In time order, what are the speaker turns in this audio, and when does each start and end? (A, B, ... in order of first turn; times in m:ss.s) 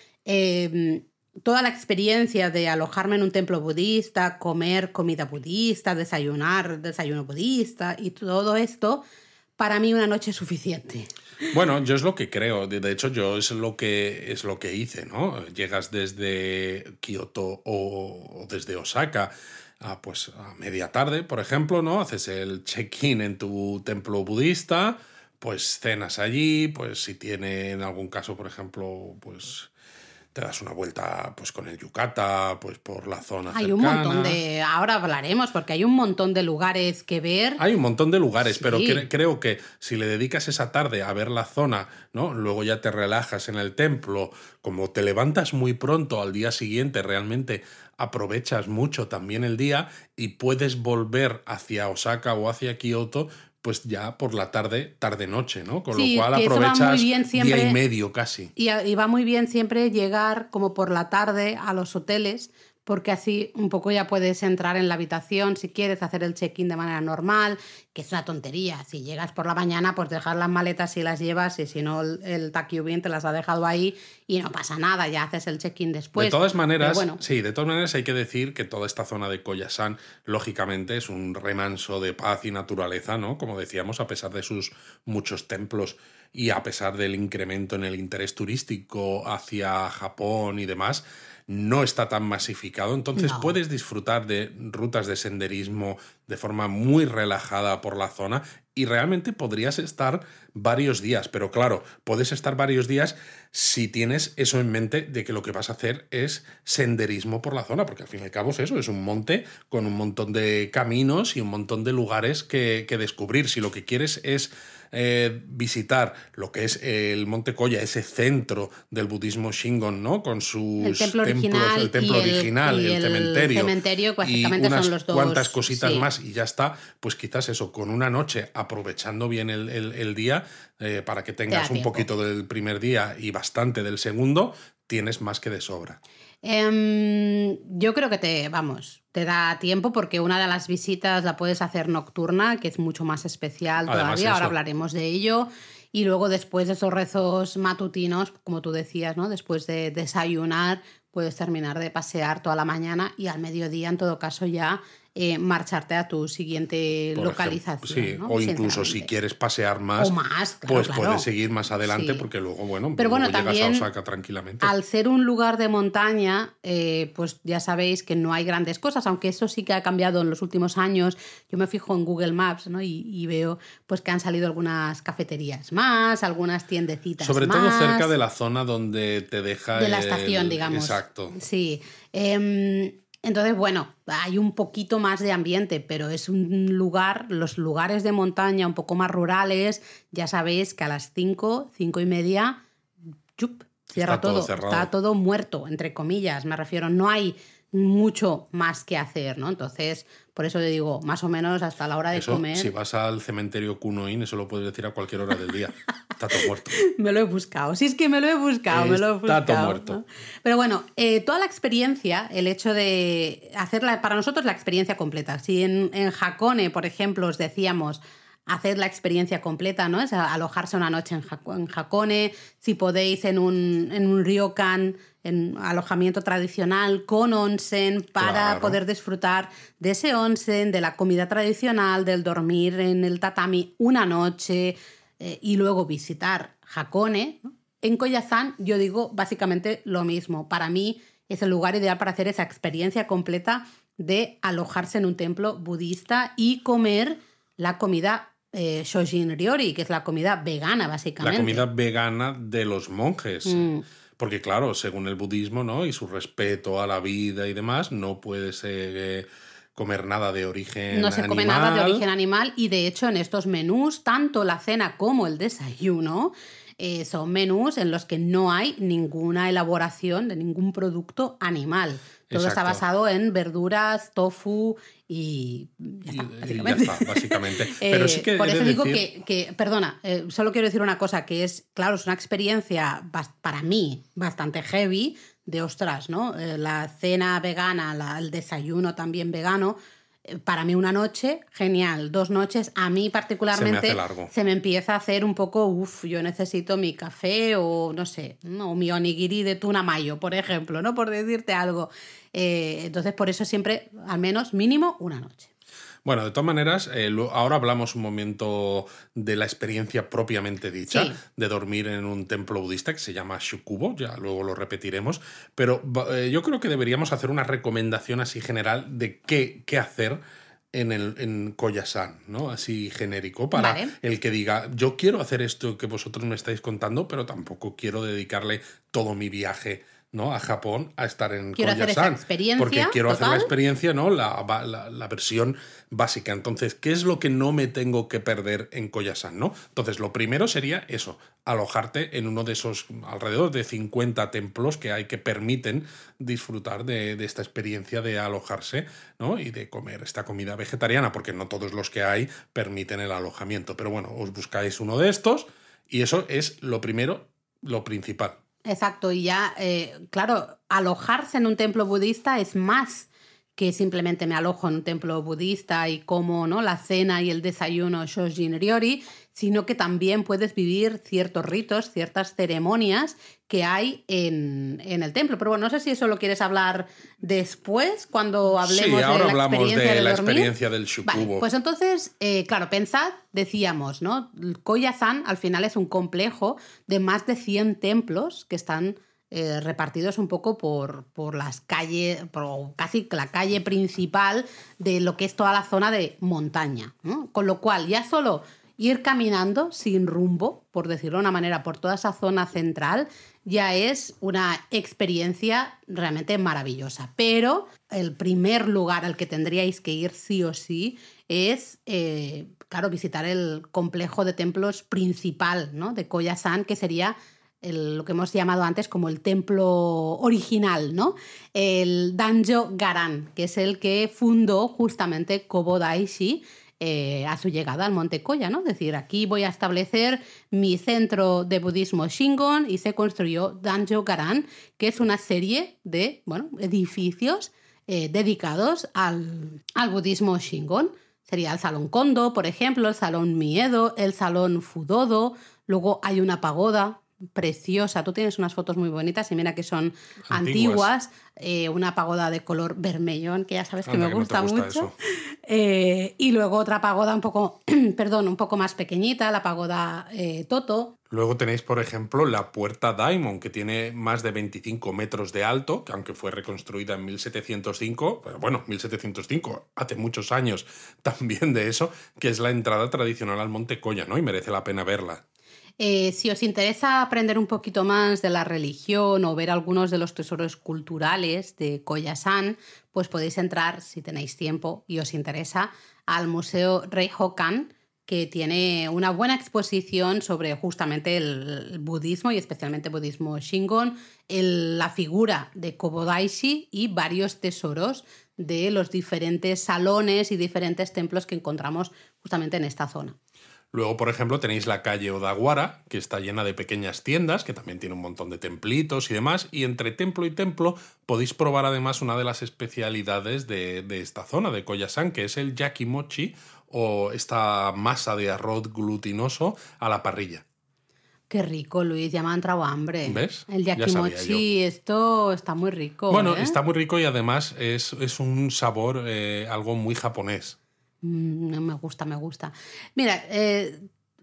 0:00.2-0:09.0 A
0:09.6-0:11.5 A
0:11.5-0:29.7 B
0:30.3-0:34.4 B
0:33.5-0:37.6 A
0:37.6-0:58.5 B
0:38.5-0:39.0 A
0:55.9-0:57.8 A
0:58.6-1:17.2 A
1:16.1-2:16.0 B
1:33.1-1:33.6 A
2:00.8-2:06.1 A
2:11.5-2:12.1 A
2:16.4-2:39.1 A
2:23.8-2:24.5 B
2:37.1-2:40.1 B
2:40.0-2:41.3 A
2:40.7-2:44.7 B
2:41.8-2:42.2 A
2:43.0-2:43.9 A
2:44.6-2:58.1 A
2:57.2-3:01.3 B
2:59.8-3:12.6 A
3:13.4-3:22.7 A
3:13.9-3:14.9 B
3:22.1-3:26.8 B
3:26.7-4:11.6 A
3:28.7-3:30.0 B
3:48.2-3:48.8 B
4:11.2-4:13.7 B
4:13.4-4:13.8 A
4:14.2-4:22.0 B
4:20.9-5:05.5 A
4:32.3-4:32.8 B
4:36.1-4:39.0 B
4:53.5-4:54.3 B
5:06.0-5:20.2 B
5:10.9-5:11.2 A
5:20.7-5:58.4 B
5:23.6-5:23.9 A
5:31.6-5:33.5 A
5:58.6-6:20.5 A
6:18.6-6:21.5 B
6:21.1-7:40.9 A
7:30.3-7:30.9 B
7:33.8-7:34.9 B
7:41.1-7:55.2 B
7:55.8-8:23.2 A
8:23.7-8:40.4 B
8:41.3-8:46.6 A
8:43.0-8:44.4 B
8:46.1-8:50.6 B
8:51.0-8:53.8 A